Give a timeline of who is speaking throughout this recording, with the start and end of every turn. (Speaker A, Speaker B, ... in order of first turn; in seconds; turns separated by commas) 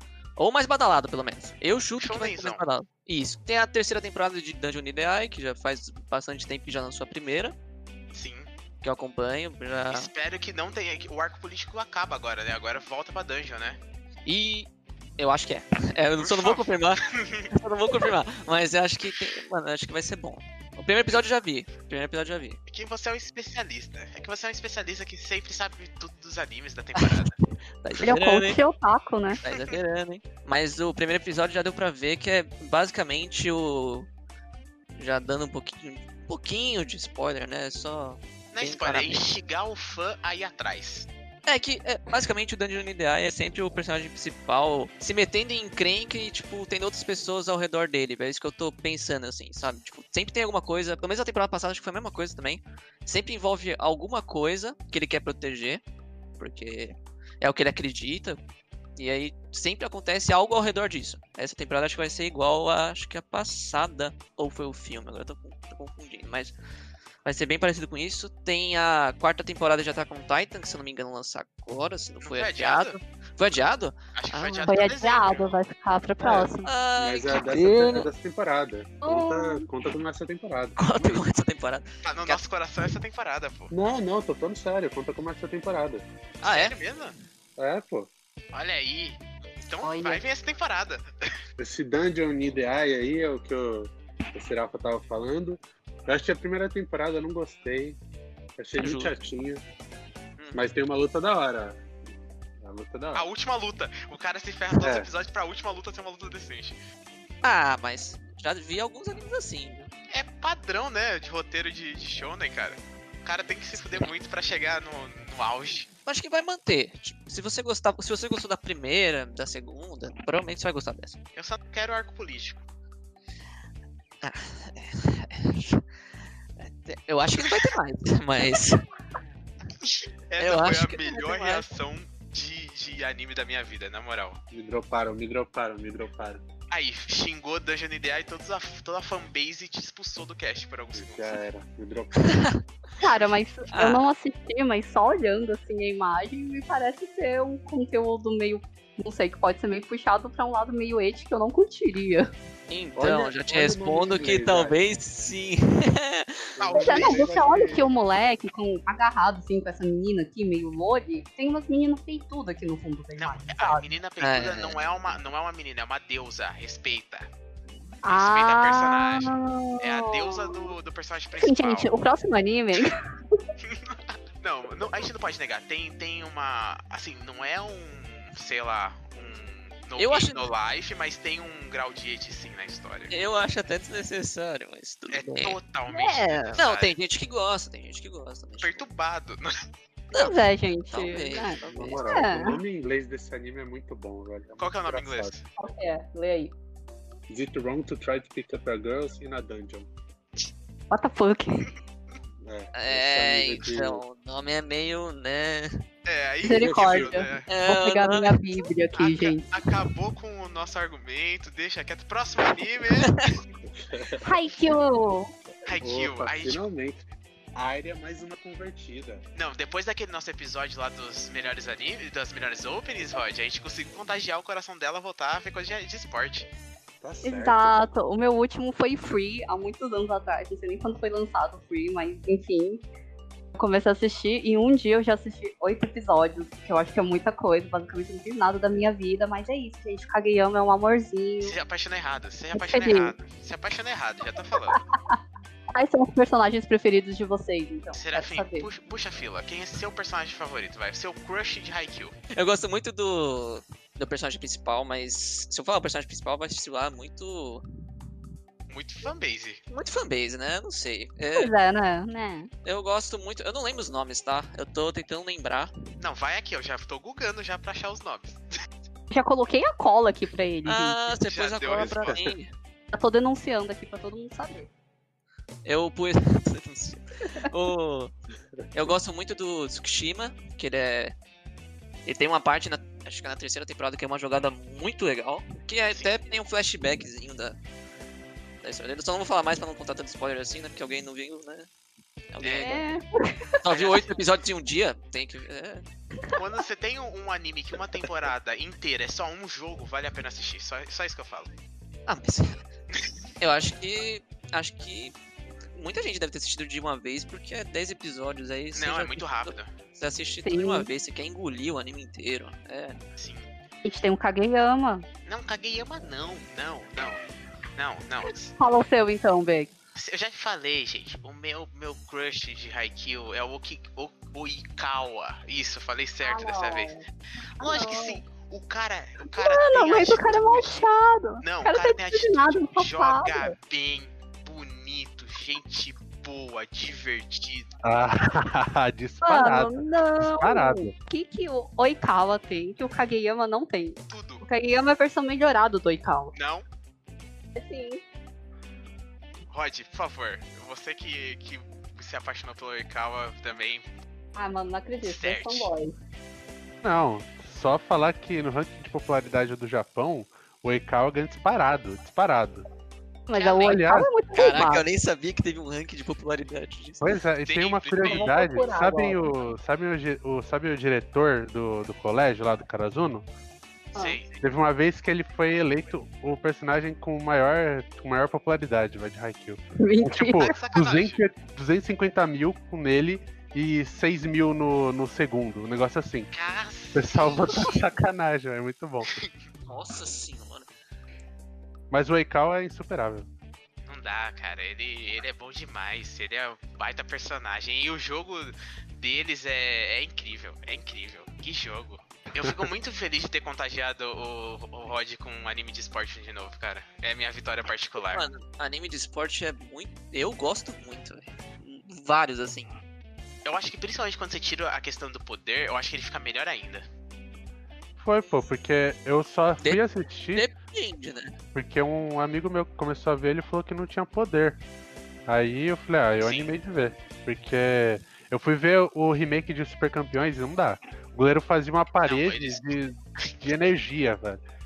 Speaker A: 0.4-7.5, Speaker B: 2.0-2.6, Speaker B: 8.1-8.5, Speaker A: 8.8-10.1, Speaker B: 9.9-13.8, Speaker A: 14.2-22.6, Speaker B: 16.2-17.5, Speaker B: 22.7-27.3, Speaker A: 26.9-28.6, Speaker C: 28.0-29.4, Speaker A: 29.4-34.1, Speaker B: 29.5-29.8, Speaker A: 35.0-39.2, Speaker B: 38.5-41.1, Speaker A: 41.5-55.8, Speaker A: 56.4-58.4, Speaker A: 59.0-66.5, Speaker A: 67.2-74.7, Speaker B: 72.2-73.0, Speaker B: 74.2-75.5, Speaker C: 74.7-76.7, Speaker D: 76.2-80.9, Speaker A: 76.7-77.8, Speaker C: 79.0-79.7, Speaker A: 80.8-82.4, Speaker B: 82.0-83.7, Speaker D: 83.7-86.0, Speaker B: 86.4-87.2, Speaker A: 86.4-86.7, Speaker D: 87.6-88.1, Speaker B: 88.5-91.1, Speaker C: 89.8-90.2, Speaker D: 91.6-98.0, Speaker D: 98.6-99.6, Speaker A: 98.8-99.1, Speaker D: 100.5-101.8, Speaker D: 102.6-103.2, Speaker B: 103.1-106.8, Speaker D: 104.8-105.1, Speaker A: 107.4-109.9, Speaker B: 110.1-115.9, Speaker A: 113.7-114.1, Speaker A: 116.0-121.2, Speaker B: 121.3-122.6, Speaker A: 124.2-125.8, Speaker A: 126.6-128.8, Speaker B: 129.8-134.4, Speaker A: 130.4-131.7, Speaker D: 134.5-136.4, Speaker B: 136.7-141.4, Speaker D: 140.9-142.2, Speaker C: 143.0-152.3, Speaker A: 143.7-144.1, Speaker A: 152.7-156.4, Speaker D: 153.0-154.8, Speaker D: 156.6-157.3, Speaker B: 156.6-157.8, Speaker C: 156.7-163.8, Speaker B: 163.2-167.3, Speaker A: 164.2-164.8, Speaker C: 168.0-170.7, Speaker B: 168.1-171.9, Speaker C: 171.4-173.0, Speaker B: 173.6-183.1, Speaker A: 180.0-180.5, Speaker A: 183.1-188.8, Speaker B: 185.1-186.9, Speaker B: 188.6-189.5, Speaker A: 190.1-190.4, Speaker C: 190.1-192.6, Speaker A: 190.9-192.0, Speaker D: 191.7-195.3, Speaker B: 194.6-195.4, Speaker C: 195.6-196.5, Speaker D: 197.3-199.9, Speaker C: 200.9-201.7, Speaker D: 202.4-203.9, Speaker A: 202.7-205.7, Speaker B: 206.1-207.5, Speaker C: 206.4-209.5, Speaker D: 206.6-207.0, Speaker A: 207.5-208.4, Speaker B: 209.0-213.3, Speaker C: 214.2-215.3, Speaker B: 215.7-216.7, Speaker D: 215.8-217.0, Speaker D: 217.5-219.2, Speaker B: 219.3-226.5, Speaker D: 227.0-227.7, Speaker C: 227.2-232.8, Speaker C: 233.5-241.5, Speaker B: 241.4-244.8, Speaker C: 242.5-243.1, Speaker C: 245.7-248.7, Speaker B: 247.9-252.2, Speaker A: 252.3-257.6, Speaker B: 258.7-259.6, Speaker A: 259.7-261.5, Speaker C: 261.4-262.5, Speaker A: 262.6-265.7, Speaker B: 266.0-268.4, Speaker C: 269.1-271.0, Speaker A: 270.6-272.5, Speaker B: 271.3-272.3, Speaker C: 272.9-274.7, Speaker A: 275.6-278.1, Speaker A: 278.7-281.1, Speaker A: 282.1-287.6, Speaker B: 285.9-286.1, Speaker A: 288.6-291.7, Speaker A: 292.3-292.8, Speaker B: 292.4-292.8, Speaker C: 292.6-293.6, Speaker A: 293.6-295.8, Speaker B: 293.7-294.2, Speaker B: 296.4-301.5, Speaker A: 302.1-302.6, Speaker A: 303.4-305.1, Speaker A: 305.7-313.0, Speaker B: 308.7-309.7, Speaker C: 310.4-310.9, Speaker B: 313.2-313.5, Speaker C: 313.8-315.1, Speaker B: 315.2-317.2, Speaker B: 317.8-318.5, Speaker C: 318.6-319.7, Speaker B: 320.0-326.9, Speaker C: 326.2-327.0, Speaker C: 327.6-328.2, Speaker B: 327.6-330.8, Speaker C: 329.3-333.5, Speaker B: 331.4-337.8, Speaker E: 337.8-340.9, Speaker C: 339.2-346.3, Speaker B: 344.1-344.4, Speaker B: 346.3-346.6, Speaker C: 347.5-348.0, Speaker B: 349.5-353.9, Speaker C: 354.3-355.9, Speaker B: 355.0-355.7, Speaker E: 356.8-362.6, Speaker C: 363.3-364.8, Speaker B: 363.3-363.8, Speaker E: 363.6-364.1, Speaker A: 364.3-367.0, Speaker E: 367.0-373.2, Speaker B: 367.4-368.5, Speaker C: 368.0-369.2, Speaker B: 373.9-374.4, Speaker E: 374.4-386.3, Speaker C: 379.8-380.4, Speaker B: 380.4-381.2, Speaker B: 386.3-387.8, Speaker E: 386.9-389.1, Speaker A: 389.7-390.7, Speaker E: 391.9-393.3, Speaker B: 393.9-408.2, Speaker A: 408.1-412.8, Speaker B: 413.4-416.8, Speaker E: 418.0-420.5, Speaker A: 420.3-421.3, Speaker E: 421.5-424.6, Speaker E: 425.3-434.4, Speaker B: 426.2-426.5, Speaker B: 432.0-432.7, Speaker B: 433.2-433.5